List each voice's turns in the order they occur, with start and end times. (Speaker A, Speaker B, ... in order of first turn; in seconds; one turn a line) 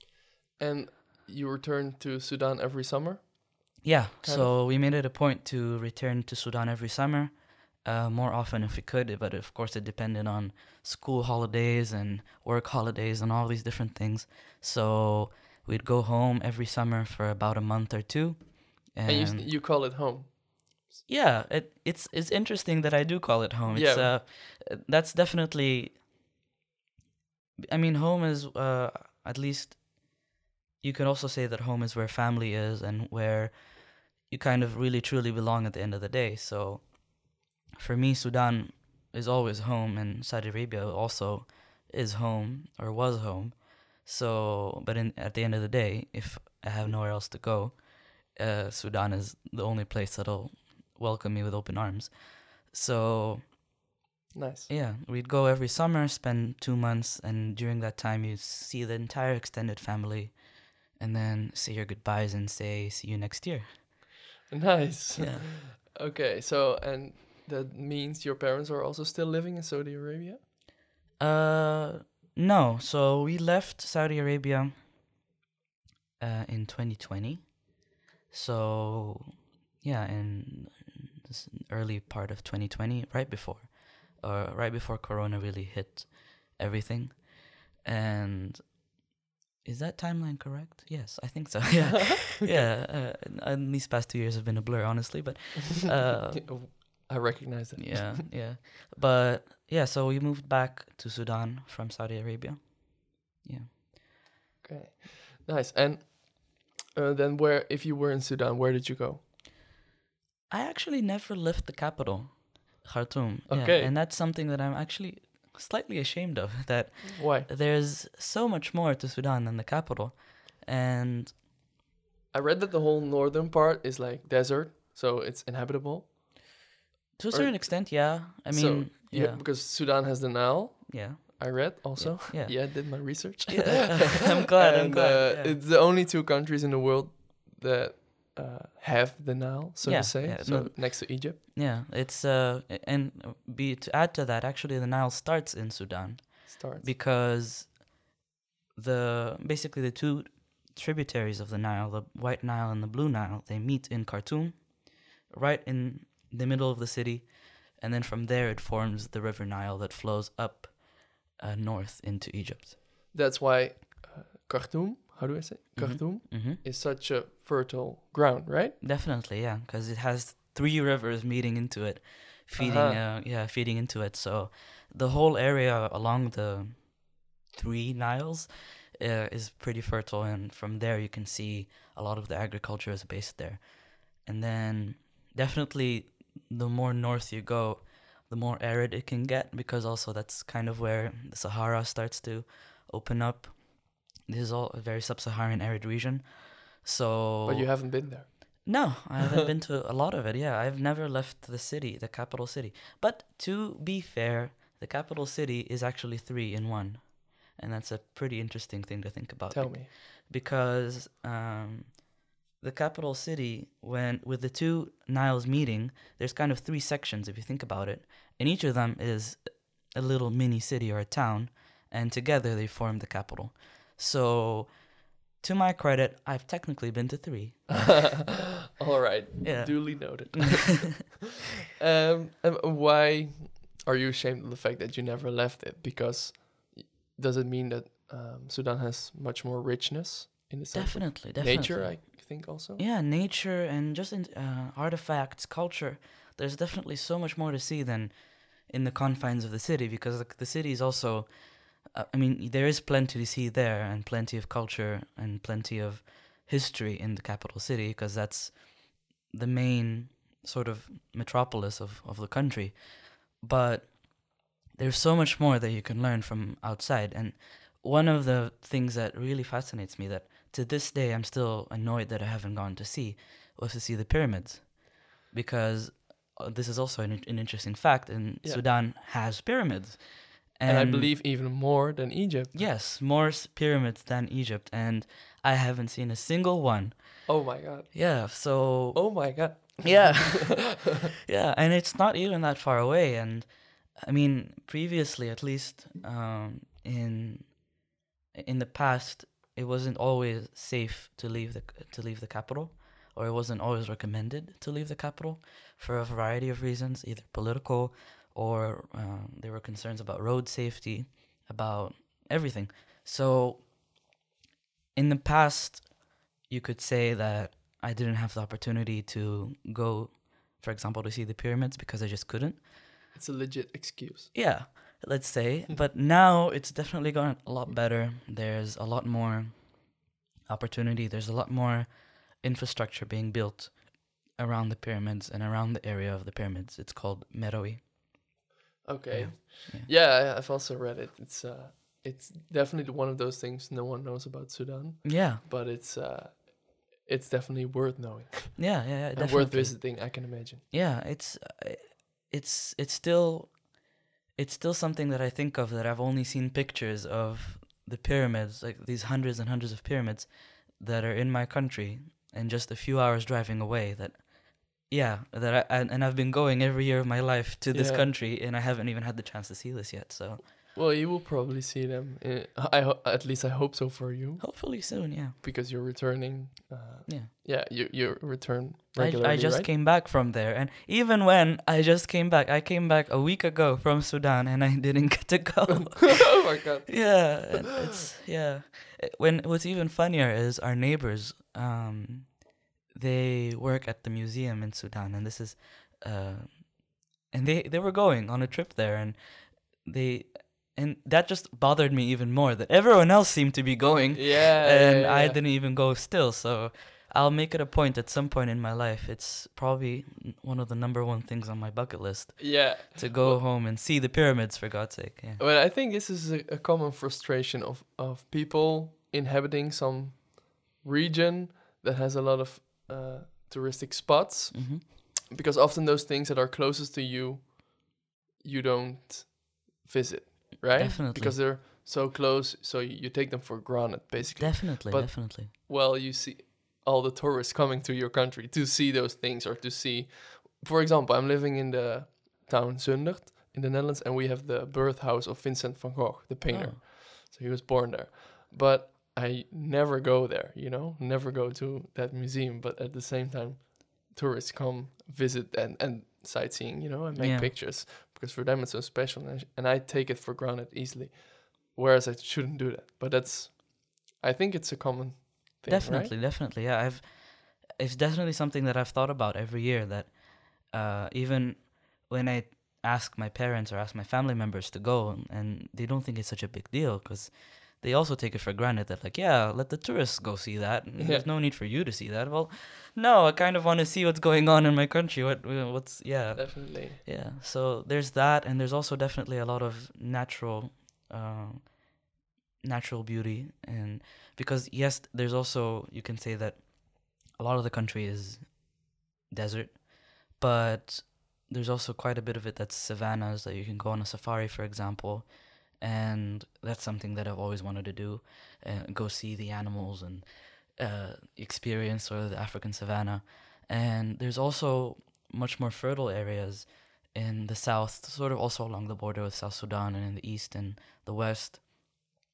Speaker A: 0.6-4.5
Speaker B: 3.8-19.5
Speaker A: 19.1-20.9
Speaker B: 21.1-26.0
Speaker A: 23.7-24.1
Speaker B: 27.7-30.2
Speaker B: 30.8-53.6
Speaker A: 54.4-54.7
Speaker B: 54.7-63.9
Speaker A: 64.5-70.4
Speaker B: 65.2-65.5
Speaker B: 71.2-74.9
Speaker B: 76.2-77.8
Speaker B: 78.3-88.8
Speaker B: 89.6-96.8
Speaker A: 96.3-98.2
Speaker B: 97.8-103.8
Speaker A: 104.6-109.2
Speaker B: 110.5-121.4
Speaker A: 113.5-113.9
Speaker A: 117.0-117.5
Speaker A: 122.3-126.5
Speaker B: 127.2-129.4
Speaker A: 127.3-141.4
Speaker B: 130.9-135.6
Speaker B: 139.8-147.9
Speaker A: 146.5-146.9
Speaker B: 148.8-162.8
Speaker A: 163.1-168.8
Speaker B: 165.8-166.6
Speaker B: 168.8-197.7
Speaker A: 172.6-173.0
Speaker A: 197.5-198.7
Speaker B: 198.7-212.1
Speaker A: 209.5-209.9
Speaker B: 212.6-228.2
Speaker A: 227.7-231.2
Speaker B: 229.4-231.0
Speaker A: 231.8-242.8
Speaker B: 240.7-281.1
Speaker A: 280.7-282.7
Speaker B: 282.5-287.3
Speaker A: 287.3-290.6
Speaker B: 287.9-297.7
Speaker B: 298.3-313.7
Speaker B: 314.9-322.7
Speaker A: 323.1-324.4
Speaker B: 324.3-338.3
Speaker A: 338.8-350.6
Speaker B: 339.1-339.9
Speaker B: 345.0-345.4
Speaker B: 348.6-370.5
Speaker A: 367.7-368.1
Speaker A: 370.8-379.7
Speaker B: 374.4-375.4
Speaker B: 377.1-377.3
Speaker B: 379.0-415.4
Speaker A: 386.0-387.5
Speaker A: 404.1-405.4
Speaker A: 412.4-413.4
Speaker A: 415.4-466.1
Speaker B: 424.5-424.9
Speaker B: 430.8-431.5
Speaker B: 434.4-435.5
Speaker B: 446.5-446.8
Speaker B: 457.2-457.6
Speaker B: 465.7-492.0
Speaker A: 481.0-481.3
Speaker A: 486.3-487.0
Speaker B: 492.6-522.1